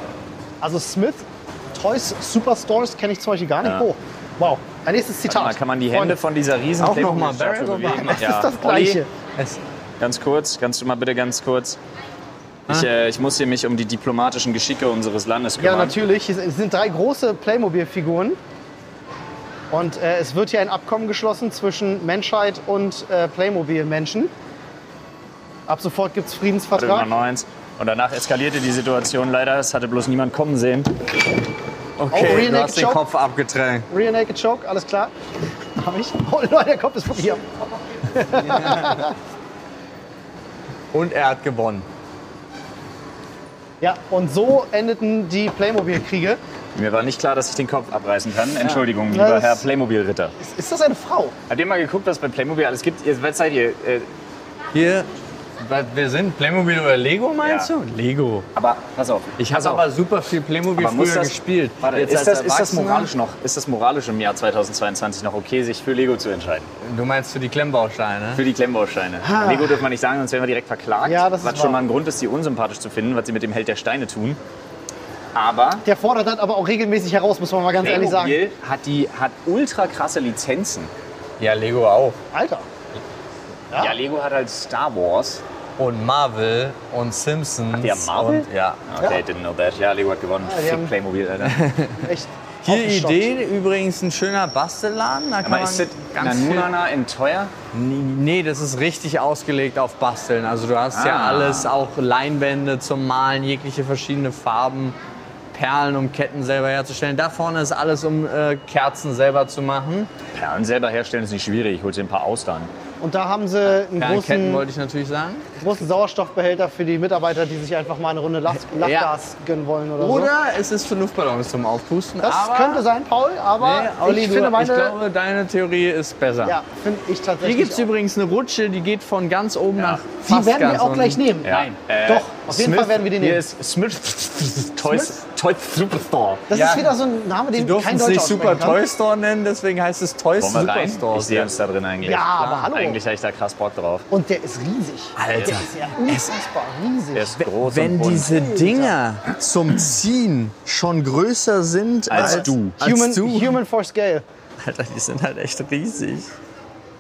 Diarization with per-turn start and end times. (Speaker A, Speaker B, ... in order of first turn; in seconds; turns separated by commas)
Speaker A: 0.6-6.2, Speaker B: 3.6-3.9, Speaker B: 5.3-9.0, Speaker C: 6.8-8.3, Speaker A: 7.9-9.1, Speaker B: 10.0-11.8, Speaker B: 12.7-16.0, Speaker A: 15.6-18.4, Speaker A: 19.7-24.3, Speaker A: 25.7-27.1, Speaker B: 26.8-31.0, Speaker C: 32.0-33.9, Speaker A: 32.1-33.0, Speaker A: 33.9-35.1, Speaker A: 35.8-37.5, Speaker A: 38.1-39.1, Speaker C: 38.4-39.0, Speaker C: 40.9-41.9, Speaker A: 43.8-46.4, Speaker B: 46.8-50.4, Speaker A: 48.7-49.7, Speaker A: 50.4-51.4, Speaker B: 51.5-54.1, Speaker C: 54.7-55.1, Speaker C: 55.6-58.5, Speaker B: 57.4-57.7, Speaker B: 58.5-59.9, Speaker C: 59.4-63.1, Speaker B: 60.8-66.7, Speaker C: 66.8-68.4, Speaker B: 68.3-74.4, Speaker A: 69.2-69.8, Speaker A: 71.0-71.8, Speaker B: 75.3-75.8, Speaker A: 75.8-78.4, Speaker B: 77.8-80.9, Speaker C: 81.4-82.2, Speaker A: 82.3-82.7, Speaker B: 83.7-85.4, Speaker C: 85.8-88.8, Speaker B: 87.8-91.6, Speaker A: 90.5-90.9, Speaker C: 91.4-92.1, Speaker A: 92.0-93.3, Speaker C: 92.7-96.7, Speaker B: 95.4-97.5, Speaker C: 97.7-105.0, Speaker B: 100.9-101.8, Speaker C: 105.5-110.1, Speaker B: 110.3-112.7, Speaker A: 113.0-114.7, Speaker C: 114.0-115.5, Speaker A: 115.6-120.3, Speaker C: 118.6-119.1, Speaker C: 120.0-122.8, Speaker A: 122.2-125.0, Speaker C: 123.6-126.6, Speaker A: 126.5-127.9, Speaker C: 127.4-131.8, Speaker B: 129.8-130.0, Speaker A: 130.2-133.4, Speaker B: 131.4-136.5, Speaker A: 134.9-135.2, Speaker A: 136.5-138.8, Speaker C: 136.5-136.9, Speaker C: 137.6-141.5, Speaker B: 140.4-144.1, Speaker A: 142.0-143.0, Speaker C: 142.2-142.7, Speaker A: 144.1-147.5, Speaker C: 145.2-146.3, Speaker B: 147.1-148.7, Speaker C: 147.6-153.6, Speaker A: 148.3-148.9, Speaker B: 152.1-152.8, Speaker A: 152.1-154.2, Speaker C: 154.6-156.3